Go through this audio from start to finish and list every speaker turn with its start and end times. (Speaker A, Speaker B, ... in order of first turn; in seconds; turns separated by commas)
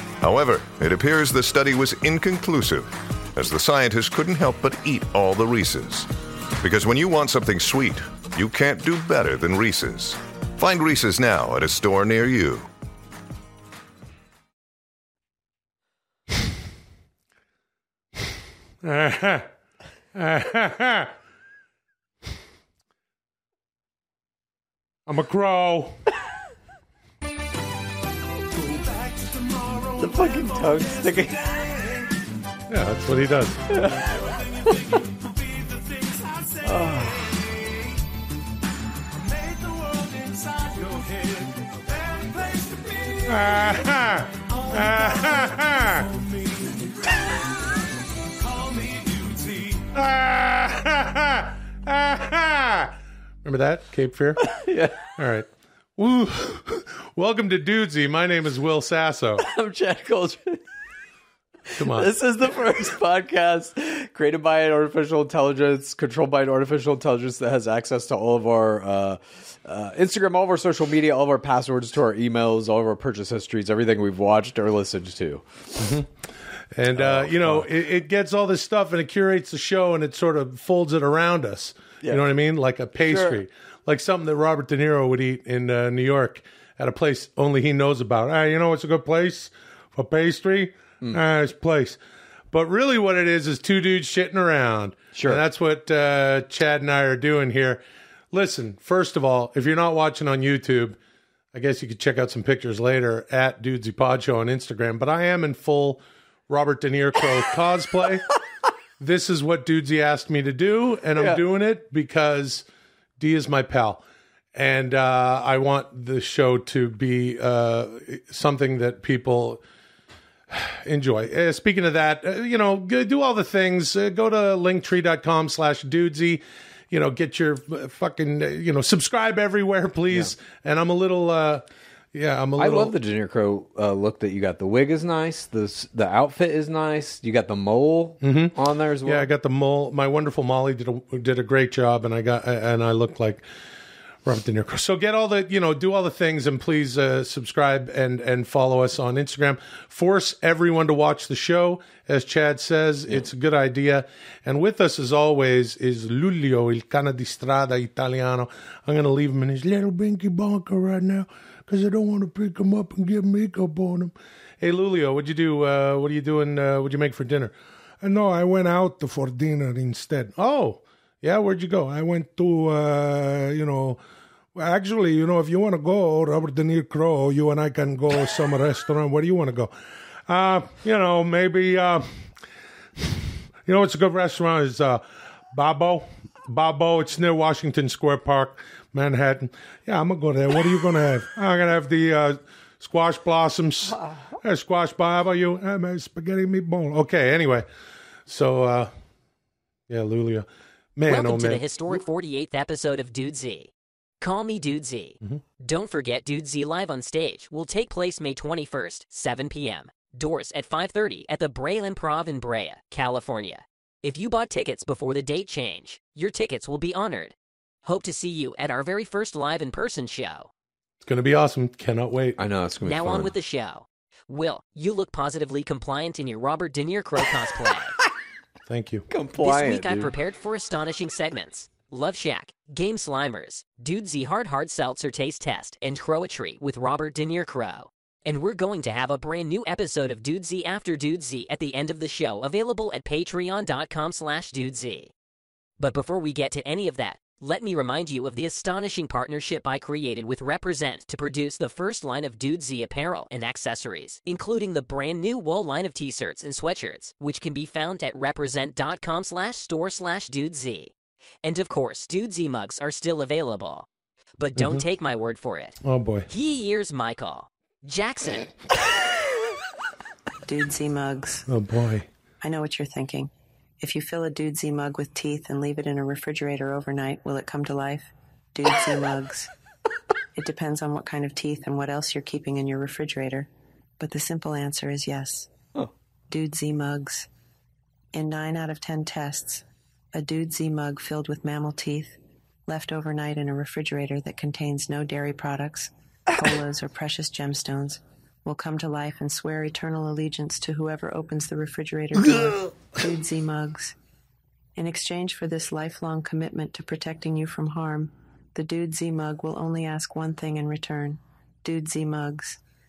Speaker A: 0.2-6.1, Speaker A: 6.6-12.7, Speaker B: 18.8-19.5, Speaker B: 20.1-21.1, Speaker B: 25.1-26.0, Speaker B: 28.6-30.3, Speaker C: 30.0-31.9, Speaker B: 32.7-34.2, Speaker C: 33.7-35.0, Speaker B: 35.7-36.7, Speaker C: 36.6-37.4, Speaker B: 39.4-47.4, Speaker B: 48.5-59.5, Speaker C: 54.4-55.1, Speaker C: 59.4-60.6, Speaker B: 61.8-62.1, Speaker C: 61.8-75.4, Speaker B: 75.8-76.1, Speaker B: 76.8-92.0, Speaker C: 76.9-77.7, Speaker C: 83.0-83.4, Speaker B: 92.5-101.0, Speaker C: 95.2-95.4, Speaker B: 101.5-108.3, Speaker B: 109.0-112.7, Speaker B: 113.2-114.0, Speaker B: 114.5-119.6, Speaker B: 120.5-133.0, Speaker C: 132.6-139.3, Speaker B: 138.2-143.4, Speaker B: 144.2-174.0, Speaker B: 174.6-179.7, Speaker B: 180.3-182.1, Speaker B: 183.0-197.7, Speaker B: 198.3-198.9, Speaker B: 199.9-201.6, Speaker D: 201.1-217.3, Speaker D: 217.9-220.5, Speaker B: 221.0-222.4, Speaker C: 222.4-223.3, Speaker D: 222.8-227.9, Speaker B: 228.7-229.1, Speaker C: 229.1-230.1, Speaker D: 229.4-245.1, Speaker D: 245.8-260.9, Speaker D: 261.4-263.9, Speaker D: 264.4-265.8, Speaker B: 264.6-264.8, Speaker B: 265.8-266.3, Speaker D: 266.3-268.5, Speaker E: 270.4-271.5, Speaker B: 271.5-272.1, Speaker E: 272.4-279.5, Speaker E: 280.4-283.5, Speaker E: 284.0-285.5, Speaker E: 286.3-287.3, Speaker E: 288.1-303.9, Speaker B: 302.1-302.7, Speaker E: 304.8-312.6